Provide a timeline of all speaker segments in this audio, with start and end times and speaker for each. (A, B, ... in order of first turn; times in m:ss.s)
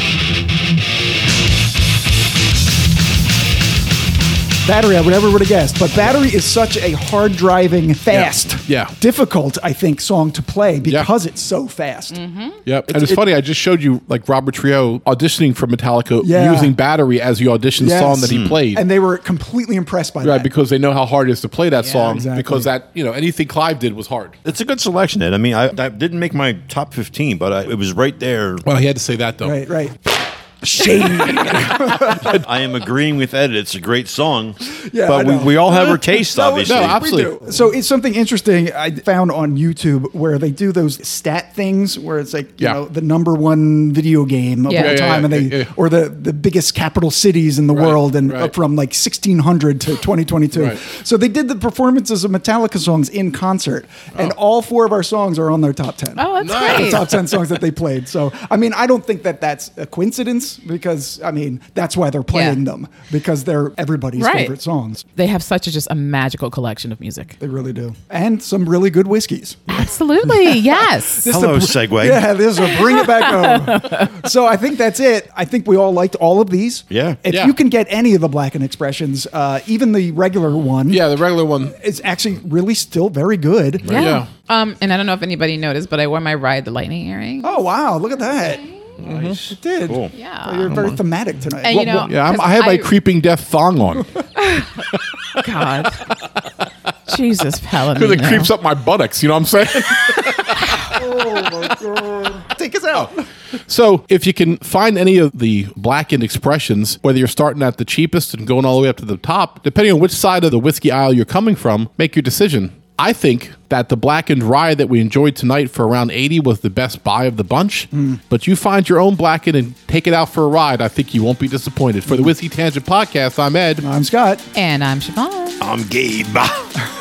0:04.6-0:12.2 A
0:08.1-0:08.9 B
0:10.8-0:11.1 B
0:12.1-0:12.6 C
0:12.6-0:18.8 B
0:12.9-0:13.2 A
0:16.2-0:16.7 A
0:17.8-0:20.5 A
0:18.2-0:18.6 D
0:20.2-0:24.4 B
0:21.8-0:22.1 C
0:22.0-0:22.7 A
0:24.4-0:28.6 D
0:28.6-0:29.6 B
0:29.4-0:30.0 A
0:30.6-0:32.3 A
0:31.1-0:32.4 B
0:31.8-0:37.0 D
0:34.9-1:05.0 A
0:36.6-0:37.5 B
0:44.6-0:45.0 C
0:44.7-0:45.7 B
0:47.7-0:48.5 B
0:50.5-0:50.8 B
0:56.2-0:57.1 C
0:56.4-0:57.2 B
1:02.3-1:02.6 C
1:04.2-1:04.5 C
1:05.2-1:07.4 C
1:07.4-1:21.0 A
1:09.7-1:11.3 C
1:11.3-1:12.3 D
1:12.6-1:14.2 C
1:16.9-1:17.2 D
1:17.3-1:17.6 B
1:20.9-1:21.8 B
1:21.7-1:24.1 A
1:23.8-1:24.3 B
1:23.9-1:27.6 C
1:27.4-1:32.1 A
1:28.2-1:28.8 C
1:29.0-1:29.4 B
1:29.8-1:30.1 D
1:30.1-1:30.8 C
1:30.7-1:31.0 B
1:31.6-1:32.9 C
1:31.7-1:34.2 B
1:34.4-1:34.8 C
1:35.4-1:36.0 C
1:37.1-1:38.5 C
1:37.9-1:42.4 B
1:40.6-1:41.0 C
1:40.9-1:43.2 A
1:43.7-2:03.8 B
2:03.8-2:04.4 A
2:04.5-2:05.7 C
2:05.6-2:06.7 D